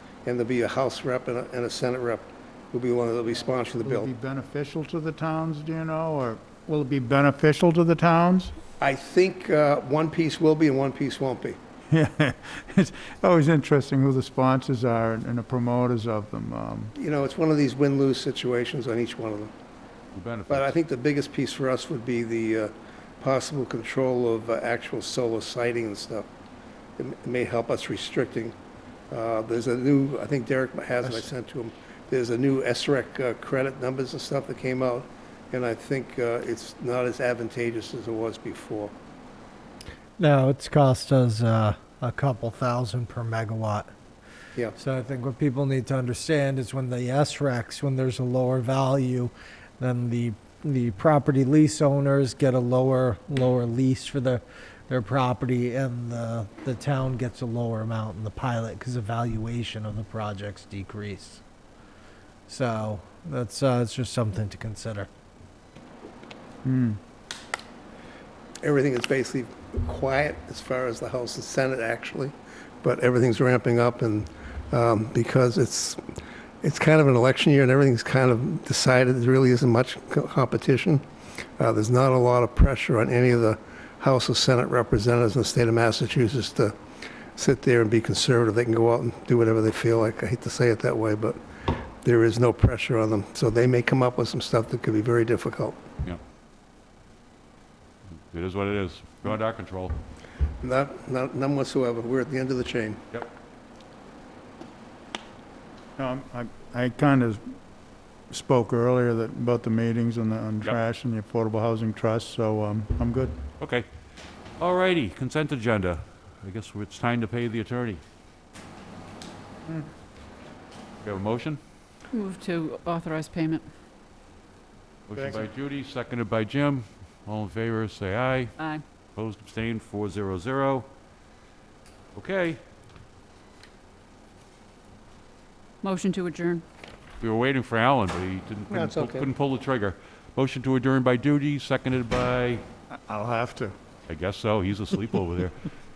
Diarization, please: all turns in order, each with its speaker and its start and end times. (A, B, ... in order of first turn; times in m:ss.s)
0:00.2-0:04.1 A
0:03.8-0:08.5 B
0:08.8-0:11.6 A
0:11.9-0:16.9 B
0:17.0-0:19.5 A
0:20.1-0:20.7 C
0:20.5-0:26.3 A
0:27.0-0:28.6 A
0:29.1-0:38.9 A
0:40.2-0:43.9 D
0:44.8-1:01.4 D
1:02.5-1:05.1 D
1:06.6-1:07.0 B
1:08.6-1:16.0 A
1:16.6-1:21.0 A
1:21.6-1:26.8 A
1:27.4-1:31.4 A
1:32.0-1:35.8 A
1:38.3-1:40.0 C
1:40.6-1:43.0 A
1:46.0-1:47.5 B
1:48.3-1:53.4 B
1:53.6-1:53.8 C
1:54.6-1:58.0 C
2:01.0-2:01.6 C
2:02.1-2:03.7 E
2:05.1-2:08.5 C
2:05.1-2:05.4 B
2:08.6-2:08.8 E
2:09.2-2:10.9 C
2:12.1-2:12.6 C
2:15.8-2:16.6 E
2:17.2-2:22.6 C
2:18.7-2:19.3 A
2:22.9-2:23.7 B
2:24.1-2:25.6 C